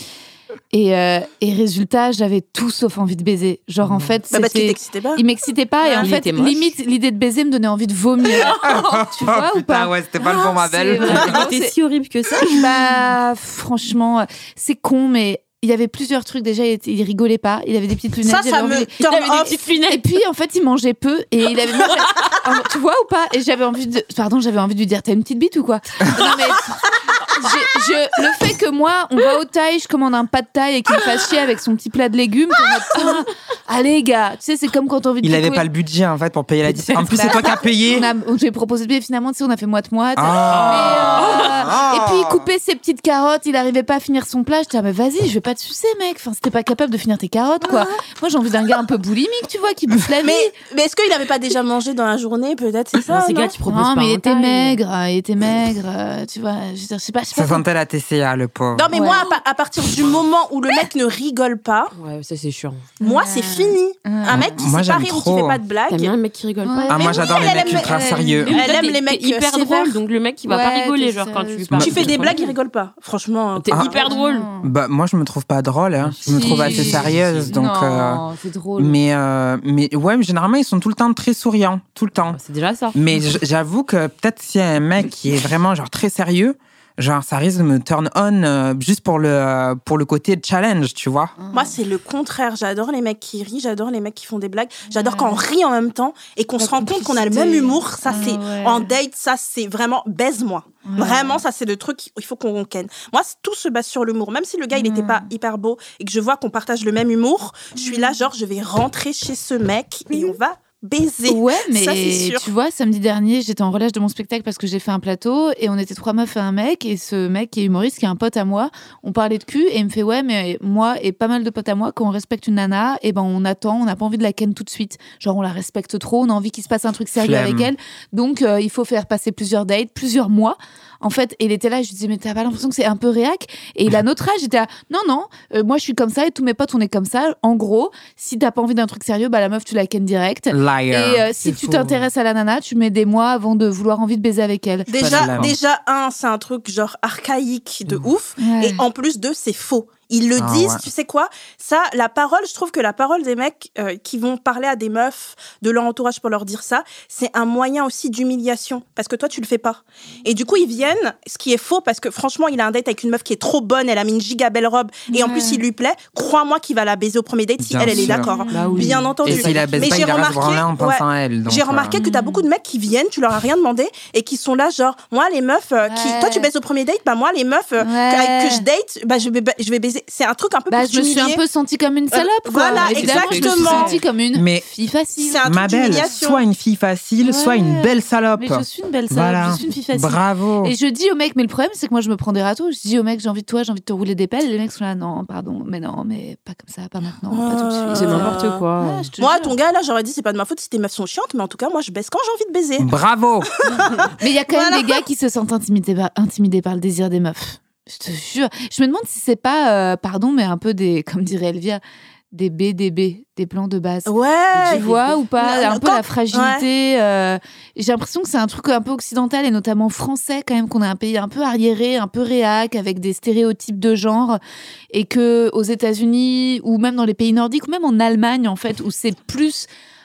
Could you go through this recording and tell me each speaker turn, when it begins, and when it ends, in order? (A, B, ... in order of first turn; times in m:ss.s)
0:00.7-0:11.7 A
0:03.8-0:04.2 B
0:04.3-0:05.2 C
0:05.8-0:06.1 C
0:06.0-0:06.7 B
0:08.5-0:11.5 D
0:10.9-0:12.7 B
0:12.4-0:18.9 A
0:18.2-0:19.6 C
0:19.0-0:20.0 B
0:19.9-0:35.7 A
0:21.8-0:22.4 B
0:35.2-0:38.1 D
0:36.8-0:37.5 B
0:36.9-0:50.5 A
0:40.2-0:42.5 D
0:40.5-0:41.7 B
0:47.6-0:47.9 C
0:50.2-0:53.5 C
0:53.1-0:54.8 B
0:53.7-0:57.6 A
0:57.3-0:58.9 D
0:58.7-1:01.9 C
0:58.9-0:59.4 A
1:02.0-1:02.9 B
1:03.0-1:06.1 C
1:03.0-1:04.6 A
1:04.3-1:05.6 D
1:05.9-1:07.7 B
1:06.6-1:08.7 A
1:06.9-1:08.6 D
1:07.0-1:10.0 C
1:08.4-1:12.5 B
1:10.5-1:12.4 A
1:11.7-1:12.2 D
1:11.8-1:14.1 C
1:13.6-1:14.5 B
1:14.1-1:14.7 A
1:14.6-1:18.2 D
1:16.0-1:17.5 B
1:16.3-1:19.0 A
1:18.8-1:22.4 D
1:22.3-1:23.0 B
1:22.9-1:31.3 D
1:31.4-1:31.8 A
1:31.5-1:52.5 C
1:34.9-1:35.4 A
1:36.6-1:38.9 A
1:40.8-1:41.4 A
1:44.7-1:45.3 A
1:47.8-1:48.2 A
1:51.2-2:25.4 A
2:07.2-2:07.7 D
2:20.5-2:22.0 D
2:24.9-3:01.4 C
2:25.0-2:25.6 D
2:28.4-2:28.8 A
2:30.4-2:30.8 D
2:45.1-2:45.6 A
2:47.6-2:48.3 D
2:47.9-2:49.1 A
2:48.5-2:50.0 B
2:49.2-2:52.0 D
2:52.0-2:52.5 A
2:55.9-2:56.5 A
2:57.8-2:58.6 A
3:00.7-3:06.0 A
3:02.1-3:04.0 C
3:02.8-3:04.0 B
3:04.3-3:04.7 D
3:05.2-3:06.4 C
3:05.4-3:10.8 D
3:07.2-3:19.6 A
3:17.3-3:18.6 C
3:17.9-3:19.1 B
3:19.2-3:22.9 C
3:22.8-3:23.5 D
3:23.7-3:25.0 C
3:24.1-3:31.8 A
3:32.3-3:34.1 A
3:34.0-3:36.6 C
3:34.6-3:35.2 B
3:34.6-3:44.4 A
3:44.9-3:49.7 A